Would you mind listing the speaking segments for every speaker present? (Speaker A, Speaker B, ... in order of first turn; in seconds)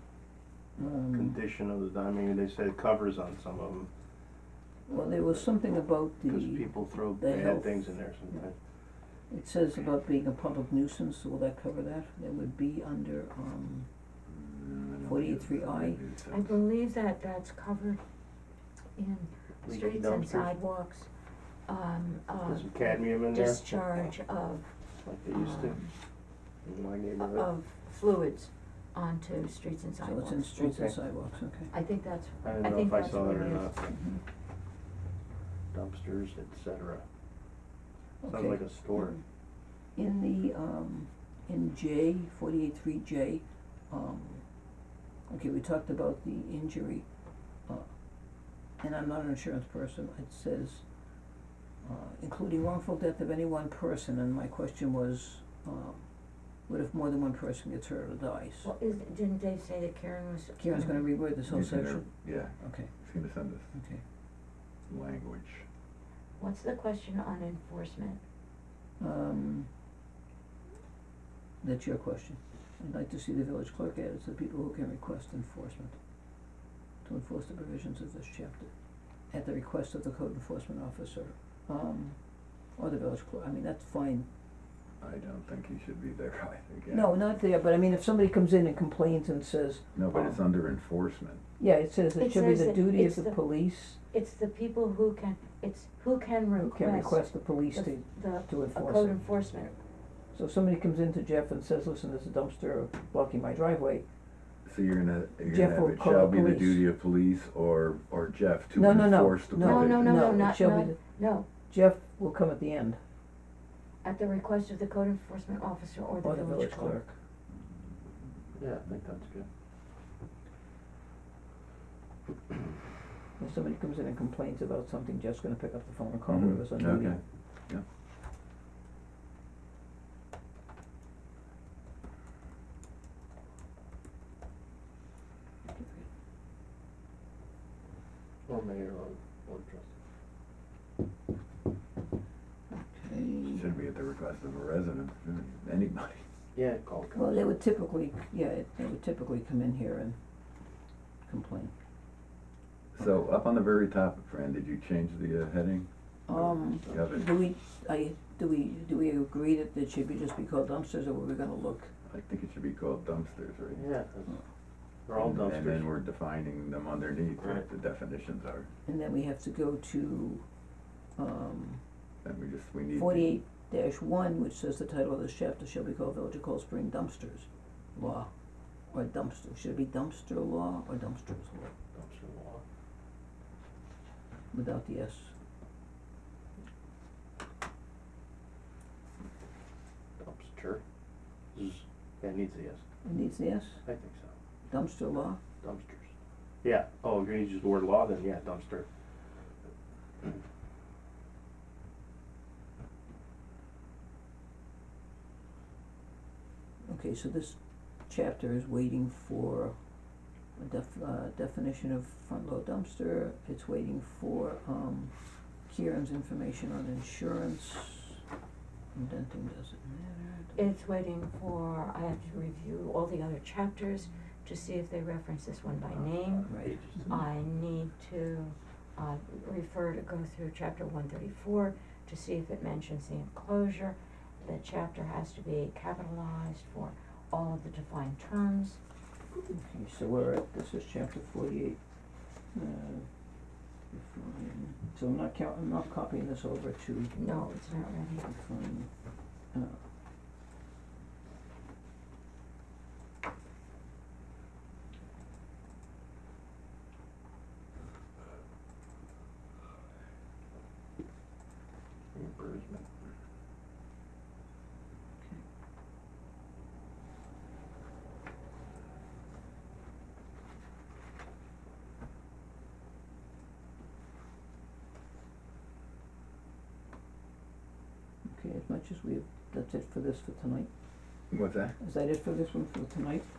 Speaker A: 0.8-1.4, 4.9-8.4, 9.3-13.9, 15.0-16.0, 30.0-31.7, 33.9-34.2, 38.2-39.2, 40.0-44.4, 45.3-47.1, 48.8-50.8, 51.8-56.0, 56.7-58.7, 60.6-62.9, 63.7-64.0, 69.0-69.7, 71.6-76.0, 77.0-78.7, 79.3-82.2, 82.8-84.3, 86.9-90.4, 91.6-94.0, 96.6-99.2, 100.3-104.1, 105.5-106.9, 108.7-111.0, 111.7-113.0, 116.2-117.1, 123.4-127.2, 135.7-136.1, 142.7-143.8, 147.2-150.2, 151.3-151.7, 156.3-161.9, 168.9-170.4, 171.2-171.8, 172.9-178.3, 178.9-181.7, 184.5-185.3, 193.0-193.8, 194.7-195.4, 206.8-209.8, 210.6-215.1, 215.7-218.2, 218.9-220.7, 226.5-227.3, 239.3-241.8, 242.5-243.1, 243.9-247.5, 248.2-248.9, 249.5-249.8, 278.3-280.7, 281.8-283.3
Speaker B: 1.1-3.9, 4.9-5.6, 6.2-8.6, 19.6-20.6, 22.4-23.6, 25.1-25.8, 26.6-27.5, 30.6-31.0, 32.4-33.9, 35.7-37.0, 38.2-39.1, 118.6-119.5, 138.5-139.9, 146.6-147.5, 163.8-164.4, 165.1-165.9, 181.9-182.6, 190.2-190.8, 191.5-192.8, 193.8-194.3, 195.6-196.1, 196.6-198.9, 262.1-262.9
Speaker C: 14.3-16.6, 61.5-63.7, 64.9-65.7, 85.0-87.2, 90.0-91.4, 104.7-110.2, 126.3-127.8, 143.5-146.2, 153.0-155.9, 156.8-157.3, 162.1-163.8, 165.2-168.7, 172.2-173.3, 281.3-281.8
Speaker D: 16.3-18.0, 19.0-21.1, 21.7-25.9, 27.2-30.5, 31.7-33.7, 58.6-61.0, 66.4-68.2, 92.2-93.4, 94.1-99.8, 109.6-111.5, 114.0-117.0, 220.6-238.8, 247.1-248.2